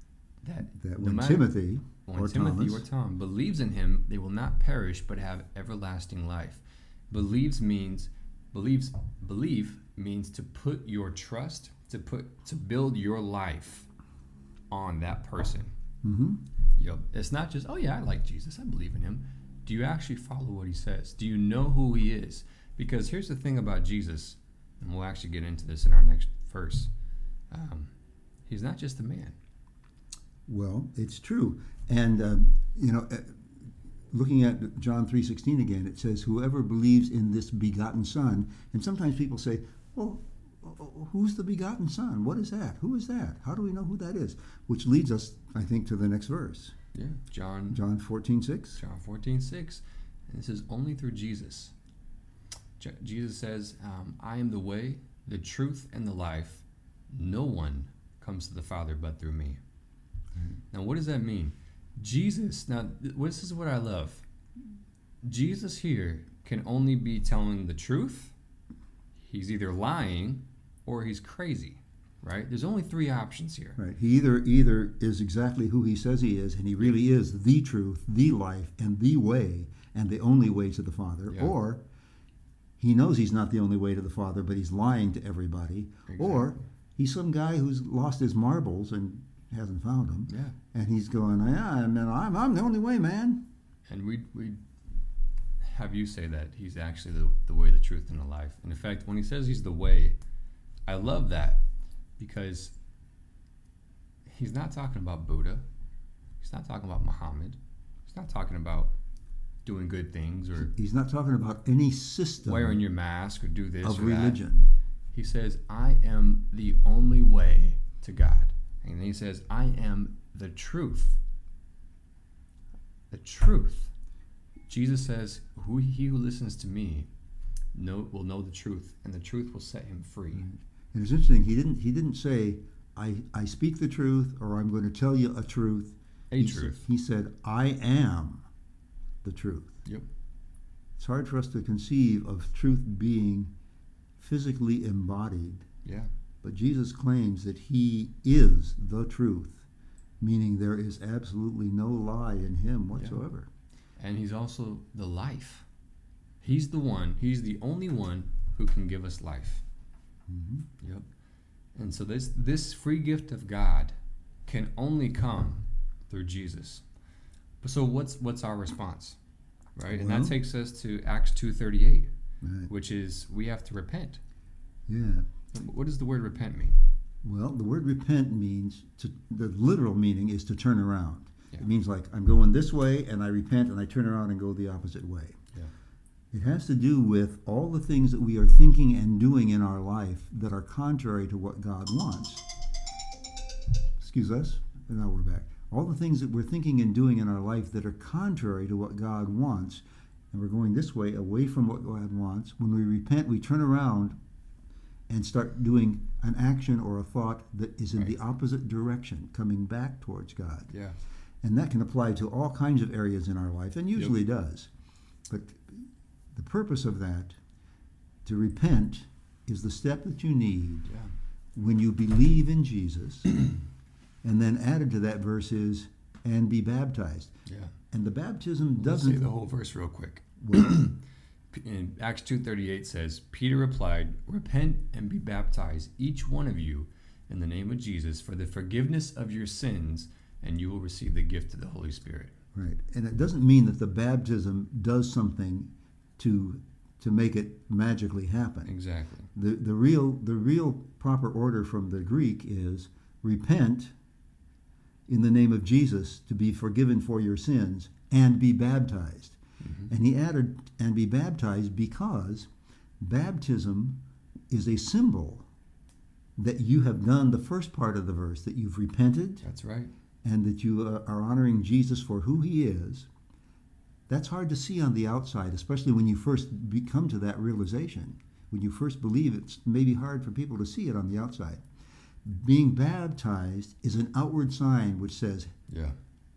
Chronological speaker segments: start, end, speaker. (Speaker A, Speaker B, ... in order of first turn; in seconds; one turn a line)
Speaker A: 0.4-1.5
Speaker B: 0.7-2.8
Speaker A: 2.0-13.9
Speaker A: 14.7-15.7
Speaker B: 16.0-16.4
Speaker A: 16.8-26.9
Speaker A: 27.5-27.9
Speaker A: 28.5-29.4
Speaker B: 30.5-46.7
Speaker A: 46.9-47.8
Speaker B: 47.7-48.8
Speaker A: 48.8-51.7
Speaker A: 52.8-59.6
Speaker B: 60.3-60.6
Speaker A: 60.7-64.2
Speaker A: 65.2-68.3
Speaker A: 69.3-73.8
Speaker B: 73.8-81.8
Speaker A: 81.3-81.5
Speaker B: 82.8-93.4
Speaker A: 86.1-86.6
Speaker A: 90.3-90.5
Speaker A: 93.9-94.6
Speaker A: 95.6-100.2
Speaker A: 100.9-101.6
Speaker A: 102.2-102.7
Speaker A: 104.3-105.6
Speaker A: 106.4-108.9
Speaker A: 109.6-110.7
Speaker B: 110.7-112.8
Speaker A: 112.4-114.4
Speaker B: 113.8-114.7
Speaker A: 115.1-121.2
Speaker A: 123.1-123.9
Speaker A: 124.7-127.1
Speaker A: 127.7-130.5
Speaker B: 130.3-138.4
Speaker A: 136.3-136.8
Speaker B: 139.2-139.8
Speaker B: 141.0-143.5
Speaker B: 144.2-145.7
Speaker A: 145.8-146.1
Speaker B: 146.4-149.7
Speaker B: 150.2-153.5
Speaker A: 154.0-155.7
Speaker A: 156.4-159.6
Speaker B: 160.3-160.7
Speaker A: 160.8-161.1
Speaker A: 161.7-163.9
Speaker A: 164.5-166.8
Speaker A: 167.6-169.2
Speaker A: 169.8-172.1
Speaker B: 169.9-170.3
Speaker B: 172.4-172.7
Speaker A: 172.7-174.2
Speaker B: 174.9-175.2
Speaker A: 175.5-176.8
Speaker B: 177.2-185.4
Speaker B: 186.3-192.5
Speaker B: 194.0-204.1
Speaker B: 205.1-210.7
Speaker A: 210.7-211.0
Speaker B: 211.4-214.7
Speaker B: 215.3-217.4
Speaker B: 218.2-220.9
Speaker A: 220.9-221.1
Speaker B: 221.5-223.4
Speaker B: 224.2-227.3
Speaker A: 227.4-227.7
Speaker B: 227.9-229.2
Speaker A: 228.8-231.0
Speaker B: 230.4-230.7
Speaker A: 231.5-242.3
Speaker B: 242.5-248.7
Speaker A: 248.7-249.3
Speaker B: 249.3-253.9
Speaker B: 255.1-262.5
Speaker A: 259.6-259.9
Speaker B: 263.0-264.0
Speaker B: 264.5-265.4
Speaker B: 266.4-269.4
Speaker A: 269.4-269.9
Speaker B: 270.2-273.1
Speaker B: 274.1-281.6
Speaker B: 282.2-285.5
Speaker A: 285.7-285.9